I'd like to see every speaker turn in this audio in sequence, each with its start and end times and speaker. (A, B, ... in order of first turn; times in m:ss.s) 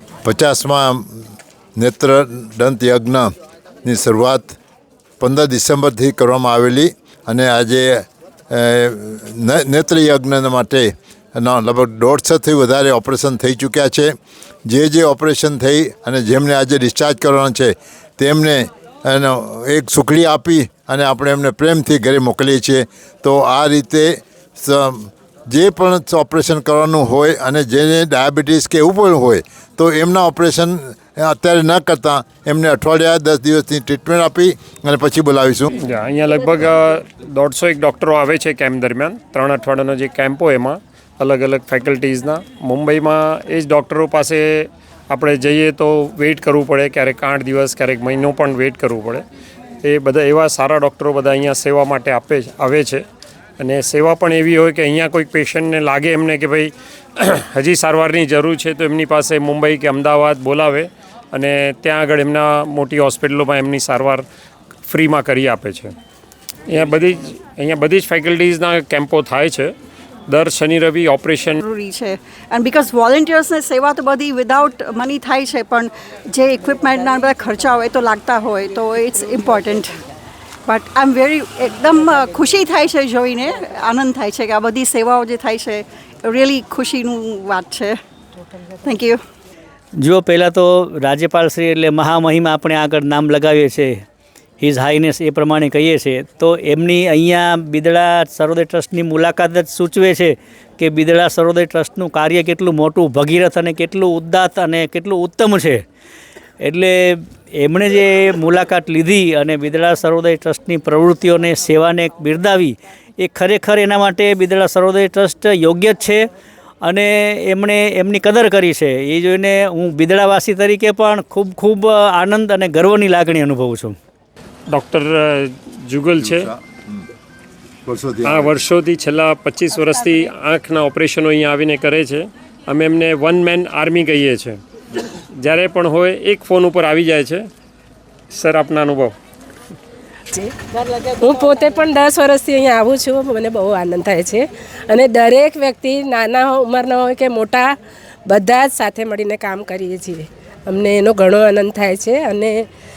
0:00.2-0:01.0 A
0:01.8-0:03.3 A
0:03.8-0:04.6 A
0:05.2-0:14.2 A
0:14.7-0:35.7 A
0:35.8-0:49.2 B
0:49.8-0:53.0 B
0:53.6-1:04.2 B
1:04.9-1:05.9 B
1:06.7-1:09.7 B
1:10.3-1:11.6 B
1:11.6-1:20.0 C
1:20.6-1:28.0 C
1:28.8-1:29.2 C
1:30.0-1:34.0 D
1:34.6-1:45.8 D
1:46.6-1:56.3 D
1:56.8-2:04.0 D
2:04.7-2:06.5 B
2:06.2-2:07.1 A
2:07.9-2:08.5 A
2:08.2-2:14.6 B
2:15.1-2:17.5 B
2:18.3-2:19.1 B
2:20.3-2:27.8 E
2:28.3-2:32.7 E